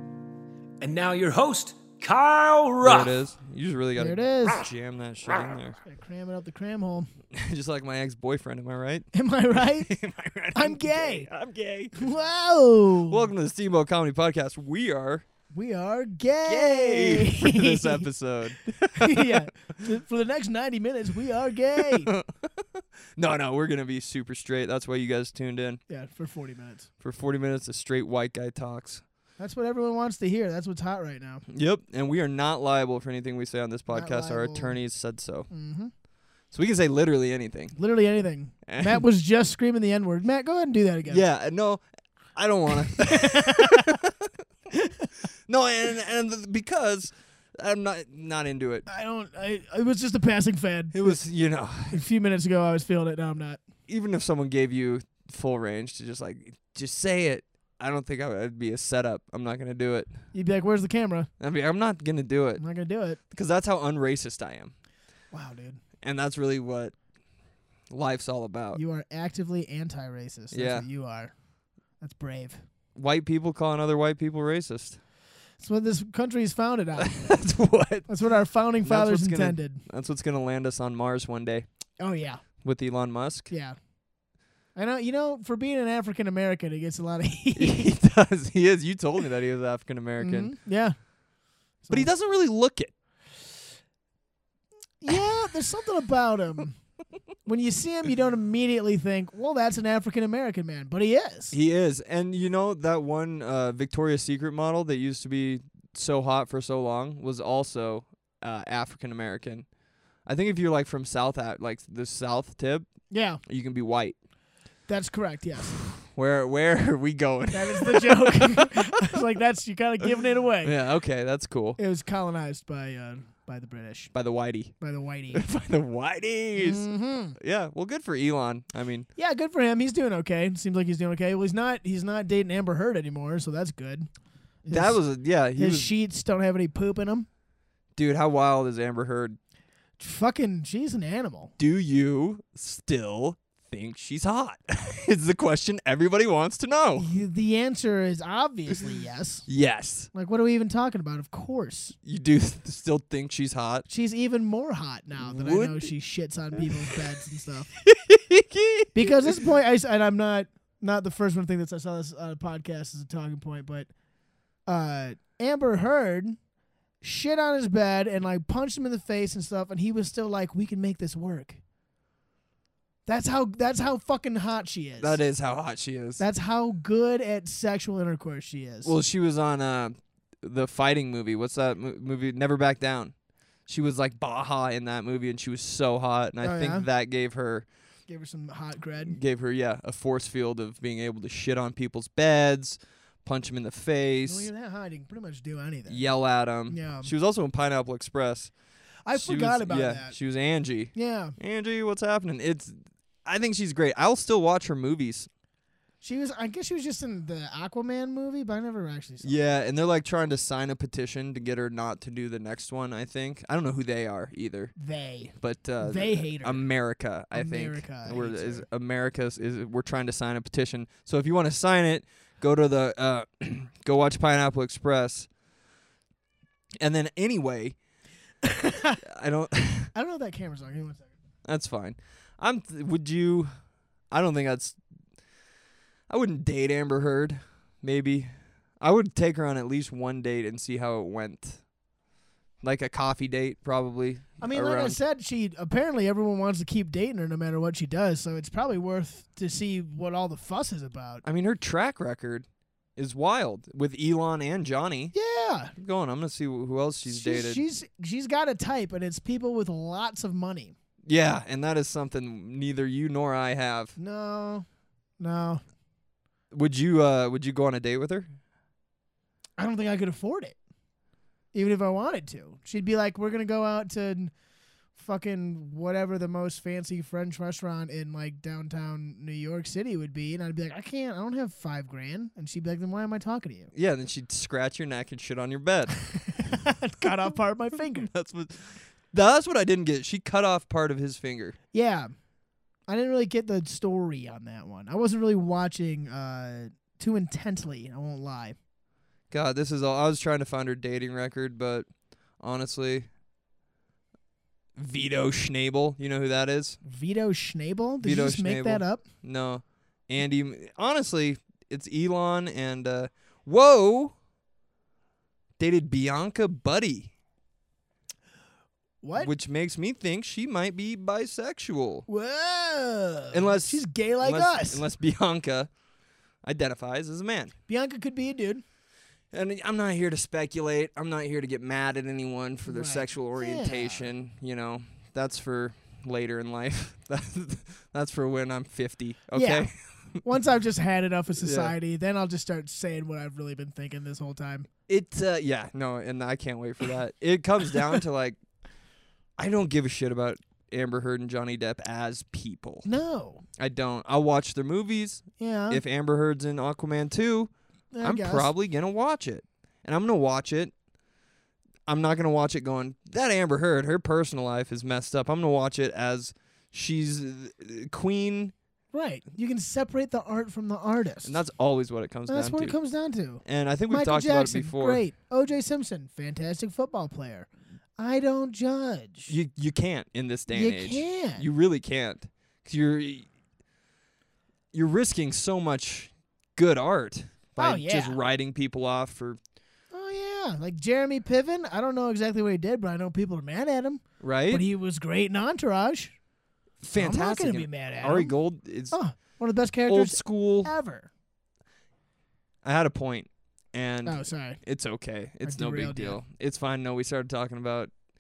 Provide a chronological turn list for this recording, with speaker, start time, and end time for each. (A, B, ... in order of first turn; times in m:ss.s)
0:00.8-0:03.2 A
0:02.8-0:05.8 B
0:04.0-0:04.6 C
0:05.8-0:07.1 C
0:07.3-0:12.1 B
0:09.1-0:09.9 C
0:10.5-0:11.3 C
0:12.0-0:13.3 C
0:13.1-0:15.3 B
0:15.5-0:18.1 C
0:16.5-0:19.5 B
0:19.0-0:22.1 C
0:21.8-0:22.6 B
0:23.2-0:25.8 B
0:25.9-0:26.9 C
0:27.0-0:29.0 B
0:29.4-0:31.4 C
0:31.5-0:35.5 B
0:33.9-0:34.8 C
0:35.5-0:35.9 C
0:36.5-0:37.8 B
0:37.8-0:41.2 C
0:38.6-0:39.0 B
0:41.1-0:41.8 B
0:42.4-0:44.3 B
0:43.0-0:44.0 C
0:44.8-0:45.1 C
0:45.5-0:48.8 B
0:48.9-0:51.2 C
0:50.9-0:52.0 B
0:51.9-0:53.6 C
0:53.9-1:00.1 B
1:00.3-1:01.3 C
1:01.4-1:02.6 B
1:02.6-1:03.2 C
1:03.3-1:04.7 B
1:05.3-1:05.8 C
1:06.0-1:07.0 B
1:07.9-1:08.8 B
1:08.7-1:11.3 C
1:10.5-1:10.9 B
1:12.0-1:12.6 C
1:13.0-1:15.0 B
1:15.6-1:17.4 C
1:17.0-1:18.1 B
1:18.1-1:19.8 C
1:18.8-1:21.7 B
1:22.0-1:22.4 C
1:22.6-1:23.5 B
1:23.5-1:23.8 C
1:24.8-1:27.9 C
1:27.5-1:30.5 B
1:30.2-1:31.0 C
1:31.8-1:32.1 C
1:31.9-1:32.9 B
1:35.0-1:36.8 C
1:37.4-1:41.6 C
1:41.5-1:49.7 B
1:50.3-1:54.2 B
1:53.1-1:53.4 C
1:54.9-1:55.8 C
1:56.0-1:59.2 B
1:57.5-2:00.8 C
2:00.6-2:01.8 B
2:01.8-2:04.1 C
2:04.1-2:04.7 B
2:04.8-2:05.4 C
2:05.3-2:09.1 B
2:06.6-2:07.4 C
2:09.2-2:14.1 C
2:14.6-2:15.0 C
2:14.7-2:15.9 B
2:15.6-2:17.3 C
2:18.0-2:19.4 B
2:20.0-2:21.5 C
2:21.6-2:27.1 B
2:27.0-2:29.5 C
2:29.5-2:30.1 B
2:30.1-2:32.0 C
2:32.0-2:33.9 B
2:33.9-2:37.7 C
2:35.2-2:35.9 B
2:36.6-2:37.0 B
2:37.8-2:39.4 B
2:38.9-2:43.9 C
2:44.7-2:46.4 C
2:47.0-2:51.6 C
2:53.1-2:55.2 C
2:55.0-2:56.2 B
2:56.2-2:58.9 C
2:58.8-3:03.1 B
3:03.7-3:07.7 B
3:06.4-3:06.9 C
3:08.1-3:09.2 C
3:09.0-3:14.5 B
3:14.2-3:16.1 C
3:15.9-3:18.5 B
3:16.7-3:17.1 C
3:19.1-3:20.2 C
3:19.1-3:25.3 B
3:20.9-3:21.4 C
3:26.0-3:29.4 C
3:29.2-3:34.7 B
3:34.8-3:36.6 C
3:35.4-3:45.3 B
3:37.3-3:38.6 C
3:46.8-3:47.8 B
3:48.4-3:49.0 C
3:49.0-3:49.9 B
3:49.9-3:51.1 C
3:51.4-3:53.5 B
3:54.1-3:54.8 B
3:56.1-4:01.6 B
4:02.6-4:05.0 B
4:04.4-4:11.2 C
4:11.2-4:15.1 B
4:15.1-4:15.7 C
4:15.8-4:17.6 B
4:17.0-4:20.8 C
4:21.1-4:24.0 B
4:24.0-4:24.7 C
4:25.2-4:25.6 C
4:26.5-4:28.3 B
4:29.6-4:30.6 C
4:31.5-4:34.3 C
4:35.0-4:43.7 C
4:43.7-4:46.6 B
4:46.3-4:48.1 C
4:48.0-4:51.6 B
4:51.7-4:52.1 C
4:52.9-4:58.6 C
4:59.3-5:01.9 B
5:02.4-5:03.1 B
5:04.8-5:06.8 B
5:06.8-5:09.0 C
5:08.0-5:14.2 B
5:15.6-5:17.1 B
5:19.0-5:19.3 C
5:19.2-5:22.1 B
5:22.1-5:24.8 C
5:23.3-5:25.7 B
5:26.4-5:27.5 B
5:27.7-5:28.6 C
5:29.3-5:40.2 B
5:32.7-5:34.1 C
5:39.4-5:39.7 C
5:40.2-5:44.7 C
5:41.4-5:41.8 B
5:44.9-5:48.4 B
5:49.4-5:52.9 B
5:52.8-5:53.4 C
5:53.6-5:57.5 B
5:55.4-5:55.8 C
5:57.9-5:58.5 C
5:58.0-6:00.7 B
6:01.9-6:08.5 B
6:08.9-6:11.4 C
6:11.2-6:12.8 B
6:12.3-6:19.3 C
6:13.4-6:15.0 B
6:19.3-6:23.3 B
6:20.5-6:21.5 C
6:24.7-6:29.4 B
6:27.6-6:28.2 C
6:29.9-6:36.1 C
6:34.2-6:34.6 B
6:36.8-6:39.0 B
6:37.0-6:38.3 C
6:38.9-6:41.1 C
6:39.9-6:40.7 B
6:42.6-6:47.9 B
6:44.1-6:44.6 C
6:45.4-6:46.2 C